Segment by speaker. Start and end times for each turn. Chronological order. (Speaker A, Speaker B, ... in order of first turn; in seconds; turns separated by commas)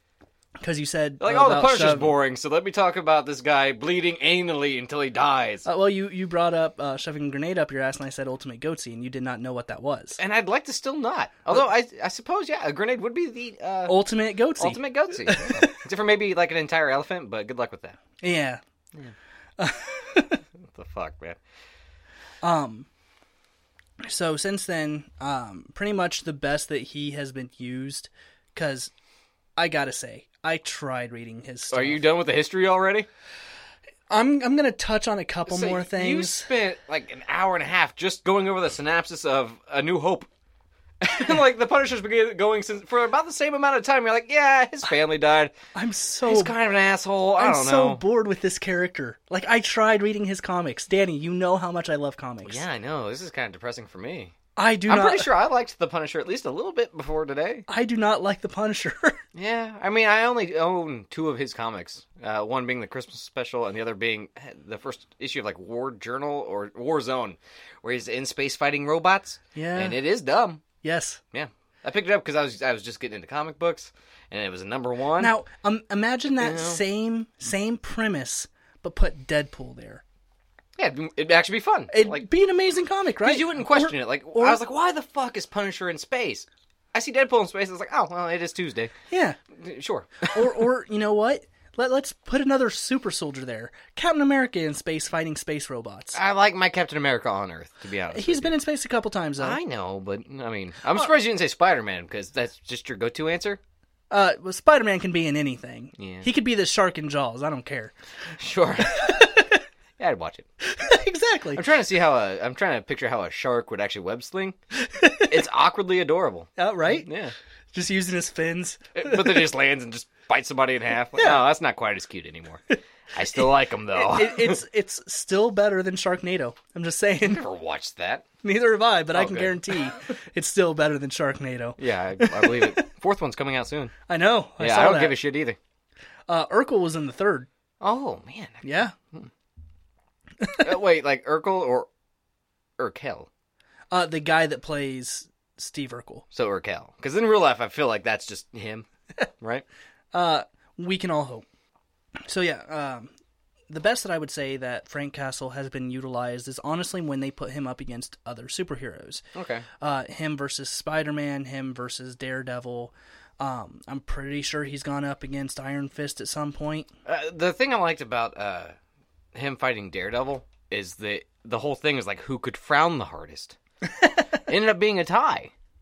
Speaker A: 0.6-2.1, Speaker B: 1.2-5.7, Speaker A: 5.7-10.2, Speaker B: 10.2-13.9, Speaker A: 13.9-15.7, Speaker B: 14.6-18.0, Speaker A: 18.2-18.6, Speaker A: 19.6-20.4, Speaker B: 20.6-21.4, Speaker A: 22.4-22.9, Speaker A: 24.0-28.9, Speaker A: 29.6-32.0, Speaker B: 31.7-33.1, Speaker A: 34.1-36.5, Speaker B: 35.5-40.3, Speaker B: 41.0-45.5, Speaker A: 45.8-46.5, Speaker B: 46.2-48.0, Speaker A: 47.4-52.6, Speaker B: 52.5-54.3, Speaker A: 54.6-55.3, Speaker B: 54.9-57.6, Speaker A: 57.7-59.2, Speaker B: 59.3-70.6, Speaker A: 69.5-70.0, Speaker A: 70.8-71.2, Speaker B: 71.3-75.3, Speaker A: 75.2-80.0, Speaker B: 76.4-76.8, Speaker B: 80.8-82.2, Speaker A: 81.9-84.6, Speaker B: 83.2-88.9, Speaker A: 89.1-89.4, Speaker B: 89.5-90.5, Speaker A: 90.3-96.2, Speaker B: 96.1-98.5, Speaker A: 98.1-99.6, Speaker B: 99.4-103.6, Speaker A: 104.1-108.0, Speaker B: 106.0-106.3, Speaker B: 108.4-109.3, Speaker A: 108.8-109.6, Speaker B: 110.0-110.5, Speaker A: 110.6-111.6, Speaker B: 111.5-114.6, Speaker A: 114.8-115.3, Speaker B: 115.3-117.3, Speaker A: 116.6-117.1, Speaker A: 117.7-119.5, Speaker B: 119.0-122.6, Speaker B: 123.1-124.6, Speaker A: 123.4-127.4, Speaker B: 127.2-128.2, Speaker A: 128.4-132.9, Speaker B: 129.1-129.7, Speaker B: 131.8-133.9, Speaker A: 134.1-135.2, Speaker B: 134.6-135.6, Speaker A: 136.3-137.5, Speaker B: 137.8-139.3, Speaker A: 138.6-138.9, Speaker A: 140.4-140.7, Speaker B: 140.6-141.9, Speaker B: 142.8-143.3, Speaker A: 143.9-146.2, Speaker B: 146.3-148.9, Speaker B: 149.4-149.7, Speaker A: 150.1-151.5, Speaker A: 152.2-153.1, Speaker A: 153.7-159.2, Speaker B: 159.3-159.7, Speaker A: 159.8-166.9, Speaker B: 167.1-168.8, Speaker B: 169.3-173.6, Speaker A: 173.9-174.3, Speaker B: 174.4-175.5